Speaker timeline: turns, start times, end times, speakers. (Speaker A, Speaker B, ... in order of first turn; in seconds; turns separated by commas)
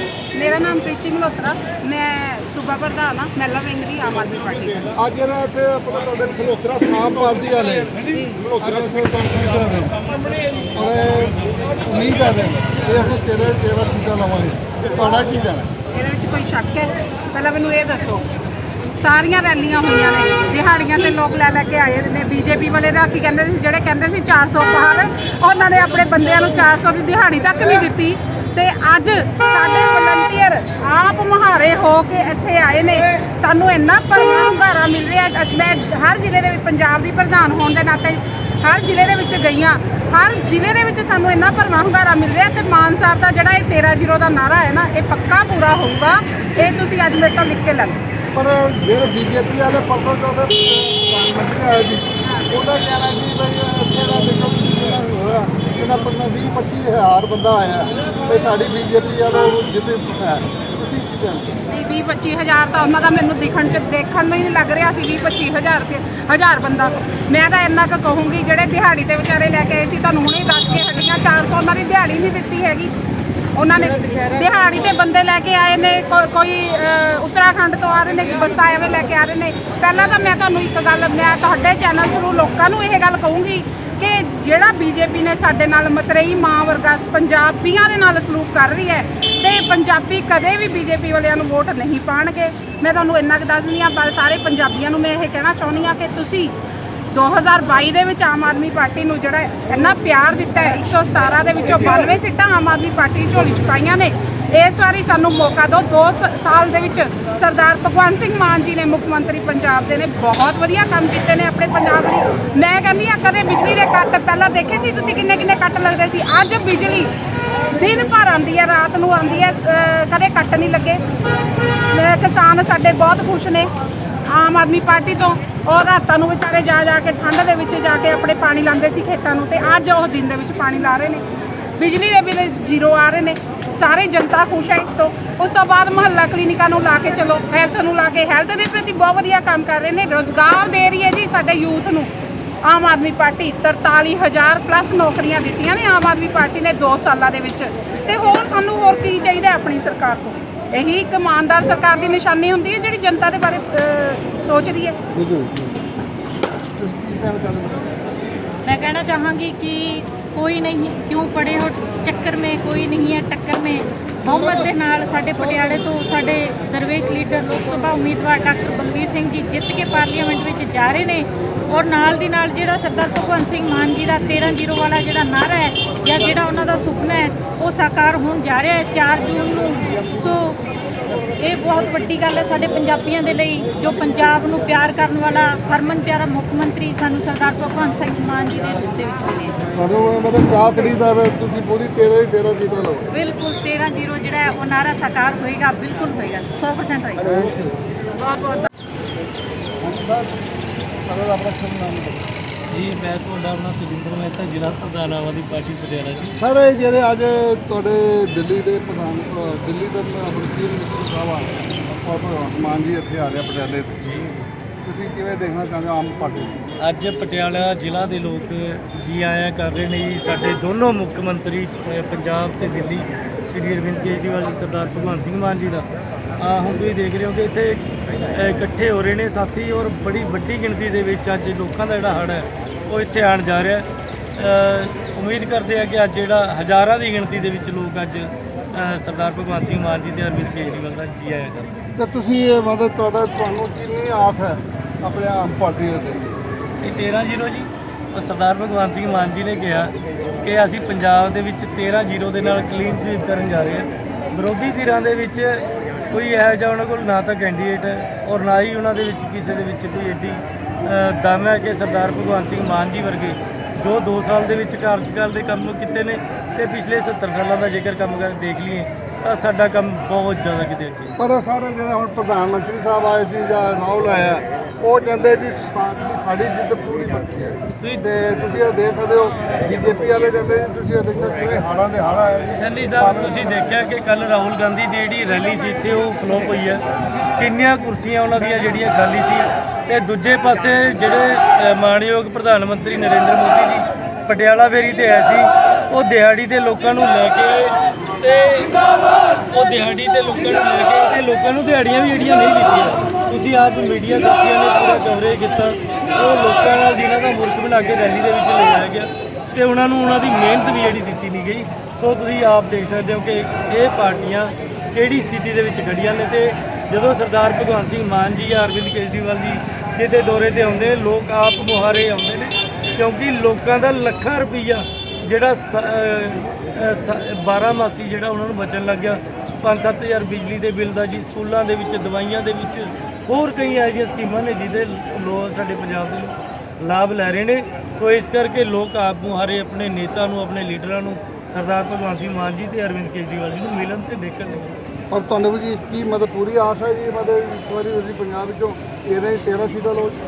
Speaker A: 0.3-4.9, Speaker B: 4.9-8.0, Speaker B: 8.5-10.0, Speaker B: 10.7-15.7, Speaker A: 15.9-18.3, Speaker A: 18.9-48.0, Speaker B: 48.3-61.6, Speaker A: 61.7-72.9, Speaker A: 73.5-96.5, Speaker A: 97.1-117.1, Speaker A: 117.7-121.0, Speaker A: 121.9-123.7, Speaker A: 124.3-131.2, Speaker A: 131.8-142.1, Speaker A: 142.6-155.0, Speaker B: 155.1-155.8, Speaker B: 156.7-157.9, Speaker C: 158.6-180.6, Speaker C: 181.3-189.6, Speaker B: 189.7-193.1, Speaker C: 193.1-197.4, Speaker B: 197.2-197.8, Speaker B: 199.8-200.4, Speaker B: 201.0-202.2, Speaker D: 202.7-206.4, Speaker B: 206.4-214.0, Speaker D: 214.0-214.4, Speaker B: 214.8-216.7, Speaker D: 216.8-225.9, Speaker D: 226.4-241.8, Speaker B: 241.9-246.3, Speaker D: 246.8-271.1, Speaker B: 271.2-283.5, Speaker D: 282.5-286.8, Speaker D: 287.4-298.8, Speaker D: 299.5-344.8, Speaker B: 345.1-350.2